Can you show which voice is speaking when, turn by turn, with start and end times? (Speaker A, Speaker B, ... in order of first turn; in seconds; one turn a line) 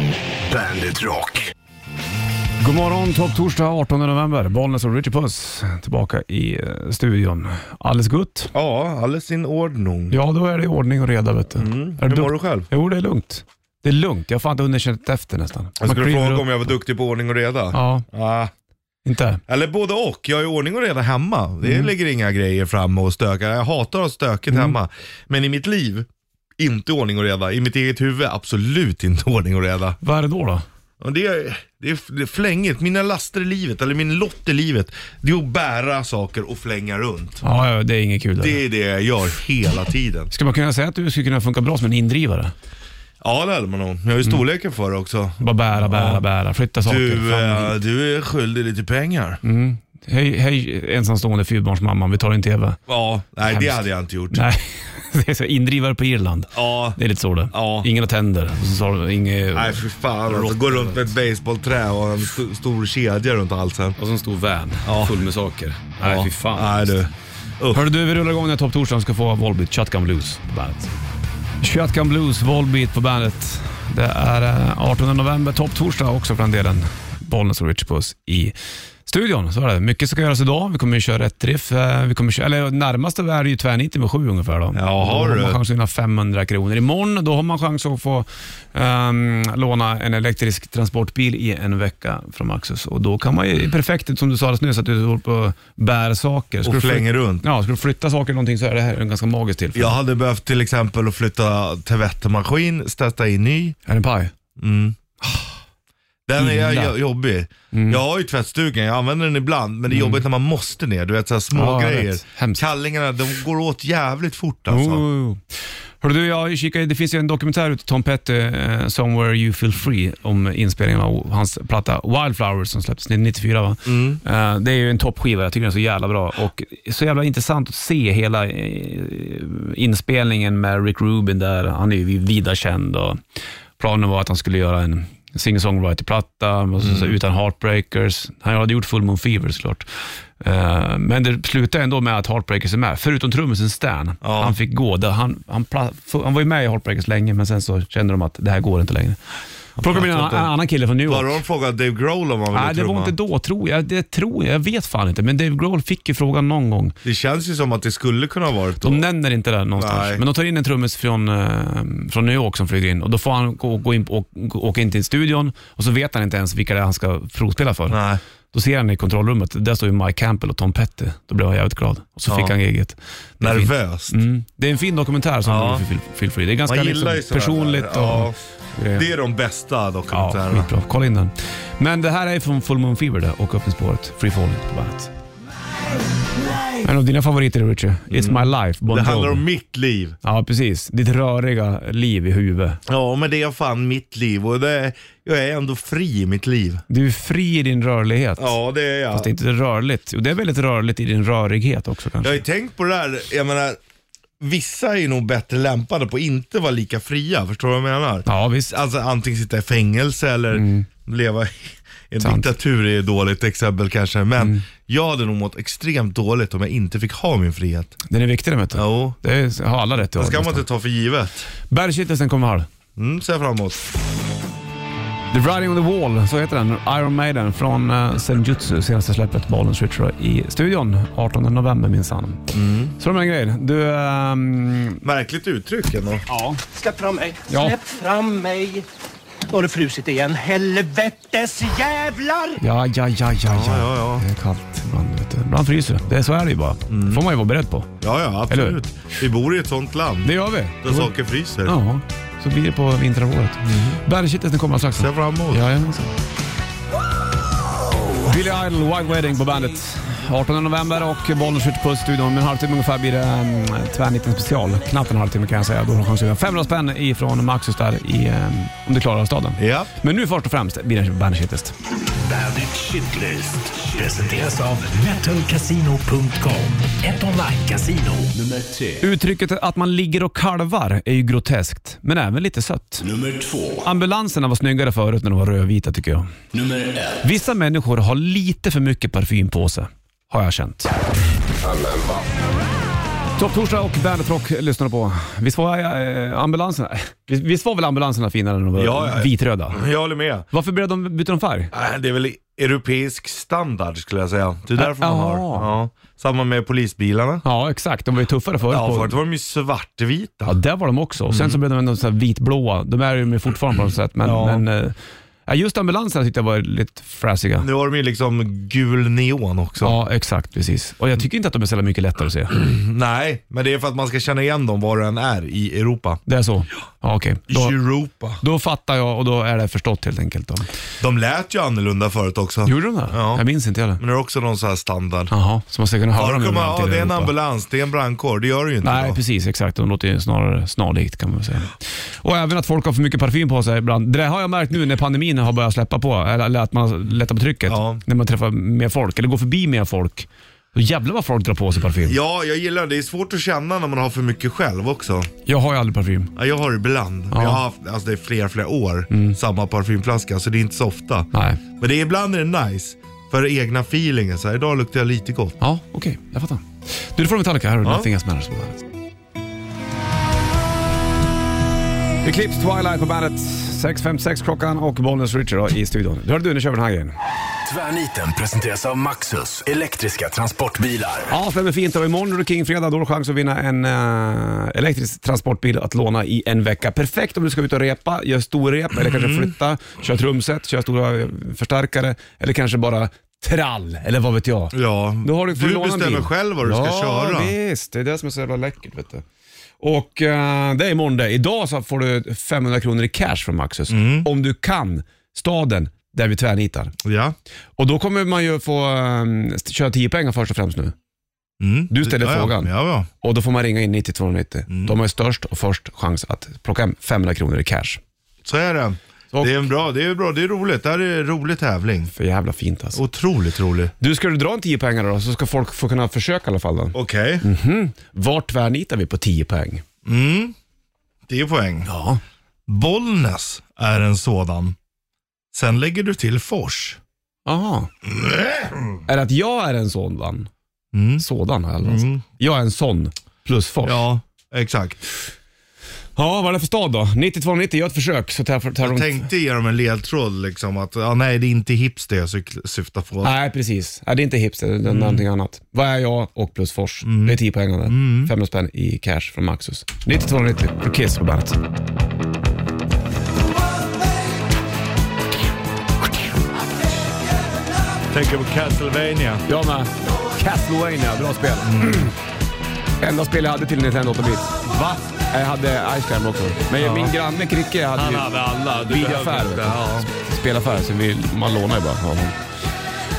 Speaker A: 0.5-1.5
Speaker B: 2.6-8.5
Speaker C: 8.5-10.2
Speaker B: 10.1-16.7
Speaker C: 11.6-12.7
Speaker C: 15.8-18.5
Speaker B: 17.7-18.1
Speaker B: 19.0-19.4
Speaker C: 19.5-30.0
Speaker B: 21.6-21.9
Speaker B: 24.5-24.8
Speaker B: 30.0-30.6
Speaker C: 31.0-37.4
Speaker B: 37.4-38.6
Speaker C: 38.4-40.3
Speaker B: 40.3-42.5
Speaker C: 43.2-46.2
Speaker B: 45.4-47.7
Speaker C: 46.9-49.4
Speaker B: 49.4-52.8
Speaker C: 52.9-54.4
Speaker B: 53.5-53.8
Speaker B: 54.3-61.1
Speaker C: 56.5-57.0
Speaker C: 57.5-57.9
Speaker C: 59.5-64.0
Speaker B: 64.0-67.0
Speaker C: 64.8-65.2
Speaker C: 66.0-67.8
Speaker B: 67.7-70.9
Speaker B: 71.6-78.5
Speaker B: 79.1-100.0
Speaker C: 84.7-85.6
Speaker C: 96.6-97.4
Speaker C: 99.7-103.8
Speaker B: 103.9-104.3
Speaker C: 104.6-105.0
Speaker B: 105.2-105.5
Speaker C: 106.3-115.0
Speaker B: 106.4-107.0
Speaker B: 107.7-108.0
Speaker B: 109.9-110.2
Speaker B: 111.5-112.6
Speaker B: 114.7-115.4
Speaker B: 116.0-133.2
Speaker C: 123.8-124.2
Speaker B: 133.8-149.2
Speaker C: 136.8-137.2
Speaker C: 144.2-144.6
Speaker B: 149.8-151.4
Speaker C: 149.8-150.5
Speaker C: 151.0-153.1
Speaker B: 152.5-157.0
Speaker C: 157.0-159.1
Speaker B: 158.8-168.0
Speaker C: 159.8-160.2
Speaker C: 167.9-168.2
Speaker B: 168.5-179.1
Speaker C: 172.3-172.5
Speaker C: 173.4-174.1
Speaker C: 175.4-175.8
Speaker C: 176.7-178.4
Speaker C: 178.9-180.7
Speaker B: 180.1-185.1
Speaker B: 186.8-189.4
Speaker C: 188.1-190.2
Speaker B: 190.2-192.8
Speaker C: 192.9-196.8
Speaker B: 196.9-198.6
Speaker C: 198.4-199.3
Speaker B: 199.1-202.4
Speaker C: 202.2-203.8
Speaker C: 204.4-218.0
Speaker B: 208.2-208.7
Speaker B: 210.5-210.9
Speaker B: 212.2-212.5
Speaker B: 214.4-214.6
Speaker B: 218.1-220.7
Speaker C: 218.7-219.2
Speaker C: 220.1-221.5
Speaker B: 221.7-222.7
Speaker C: 222.9-223.8
Speaker B: 225.3-235.0
Speaker C: 232.5-232.9
Speaker C: 235.0-236.2
Speaker B: 236.3-236.6
Speaker D: 236.7-238.8
Speaker B: 237.5-237.7
Speaker D: 239.5-242.6
Speaker B: 242.6-247.9
Speaker C: 243.4-244.2
Speaker C: 246.9-247.2
Speaker C: 248.0-250.3
Speaker B: 248.5-248.8
Speaker B: 250.2-251.1
Speaker C: 250.8-251.8
Speaker B: 251.6-256.1
Speaker C: 253.6-254.0
Speaker C: 255.0-255.7
Speaker B: 258.2-271.7
Speaker C: 269.6-269.9
Speaker A: 272.2-279.1
Speaker B: 279.0-283.0
Speaker A: 283.0-283.9
Speaker B: 283.8-286.3
Speaker A: 286.5-287.2
Speaker B: 287.2-290.9
Speaker B: 293.4-299.8
Speaker C: 298.8-300.4
Speaker B: 300.5-301.7
Speaker C: 301.7-307.4
Speaker B: 304.8-305.7
Speaker B: 307.4-309.1
Speaker C: 308.7-310.6
Speaker B: 310.4-317.7
Speaker C: 311.3-311.6
Speaker C: 314.2-314.6
Speaker C: 317.6-319.9
Speaker B: 319.8-322.6
Speaker C: 322.6-326.2
Speaker B: 326.3-327.8
Speaker C: 327.5-328.4
Speaker B: 328.4-330.7
Speaker C: 331.0-333.4
Speaker B: 332.6-334.0
Speaker C: 334.0-335.3
Speaker B: 335.3-337.3
Speaker C: 336.1-339.2
Speaker B: 338.8-352.1
Speaker C: 347.6-348.0
Speaker C: 351.9-355.3
Speaker B: 355.4-356.3
Speaker C: 356.3-365.6
Speaker B: 357.3-357.6
Speaker B: 359.1-359.4
Speaker B: 361.3-361.6
Speaker B: 365.6-368.8
Speaker C: 367.8-368.1
Speaker B: 372.2-377.1
Speaker A: 377.6-381.3
Speaker B: 381.3-399.2
Speaker C: 389.0-389.5
Speaker C: 394.7-397.5
Speaker B: 399.8-406.9
Speaker C: 403.9-404.3
Speaker C: 407.0-407.3
Speaker B: 407.8-410.9
Speaker C: 411.6-413.1
Speaker B: 411.9-412.7
Speaker B: 413.2-418.0
Speaker C: 414.7-414.9
Speaker C: 418.4-422.1
Speaker B: 422.1-423.0
Speaker C: 422.9-423.9
Speaker B: 424.0-429.8
Speaker C: 426.9-427.4
Speaker C: 430.0-430.5
Speaker C: 431.3-431.9
Speaker B: 431.9-432.2
Speaker C: 432.7-434.8
Speaker C: 435.5-437.0
Speaker B: 437.4-437.9
Speaker C: 438.1-439.0
Speaker B: 439.1-440.5
Speaker C: 440.9-441.2
Speaker B: 441.2-444.0
Speaker C: 441.8-442.2
Speaker C: 443.8-445.0
Speaker B: 446.1-449.2
Speaker C: 448.8-453.3
Speaker B: 453.2-461.6
Speaker C: 454.9-455.2
Speaker C: 457.0-458.3
Speaker C: 468.1-469.4
Speaker B: 469.5-472.1
Speaker C: 471.6-472.1
Speaker B: 473.0-474.6
Speaker C: 474.6-475.1
Speaker B: 475.3-482.4
Speaker C: 476.8-477.1
Speaker C: 477.9-480.1